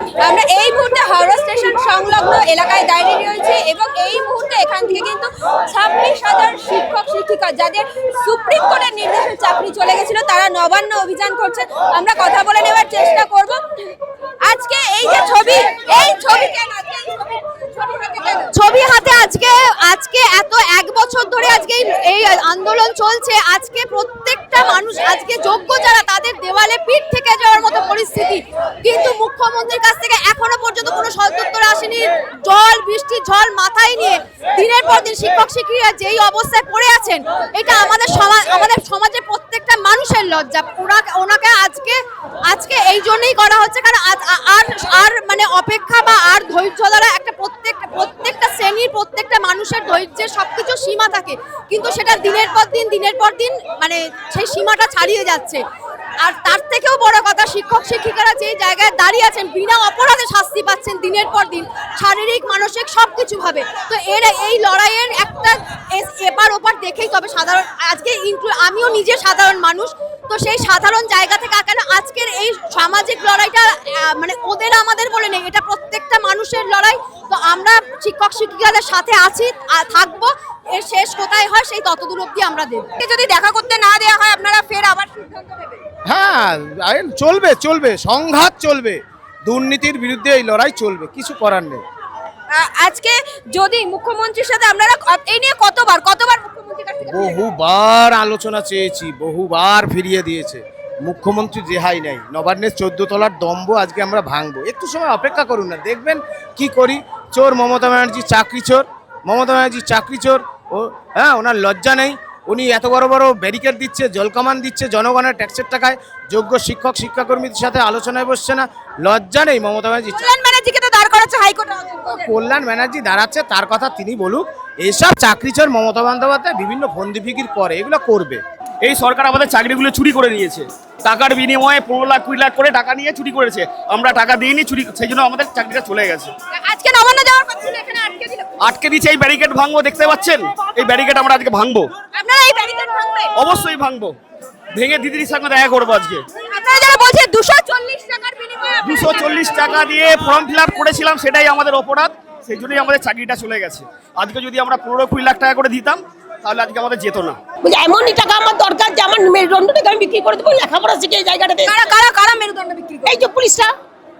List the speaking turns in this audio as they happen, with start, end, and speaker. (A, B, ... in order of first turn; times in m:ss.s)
0:00.2-0:13.6 A
0:14.4-0:18.4 A
0:18.5-0:55.6 B
0:56.2-1:22.9 B
1:23.0-1:25.8 A
1:26.0-1:31.8 C
1:32.5-1:37.3 A
1:37.0-2:00.3 C
2:00.2-2:02.2 A
2:02.1-2:08.4 C
2:08.8-2:16.3 D
2:16.5-2:18.5 A
2:18.6-2:21.9 D
2:22.1-2:23.3 A
2:23.3-2:24.2 D
2:24.7-2:26.2 D
2:26.4-2:29.8 A
2:28.8-2:37.4 D
2:37.6-2:41.9 E
2:41.7-2:43.1 A
2:43.0-2:43.7 E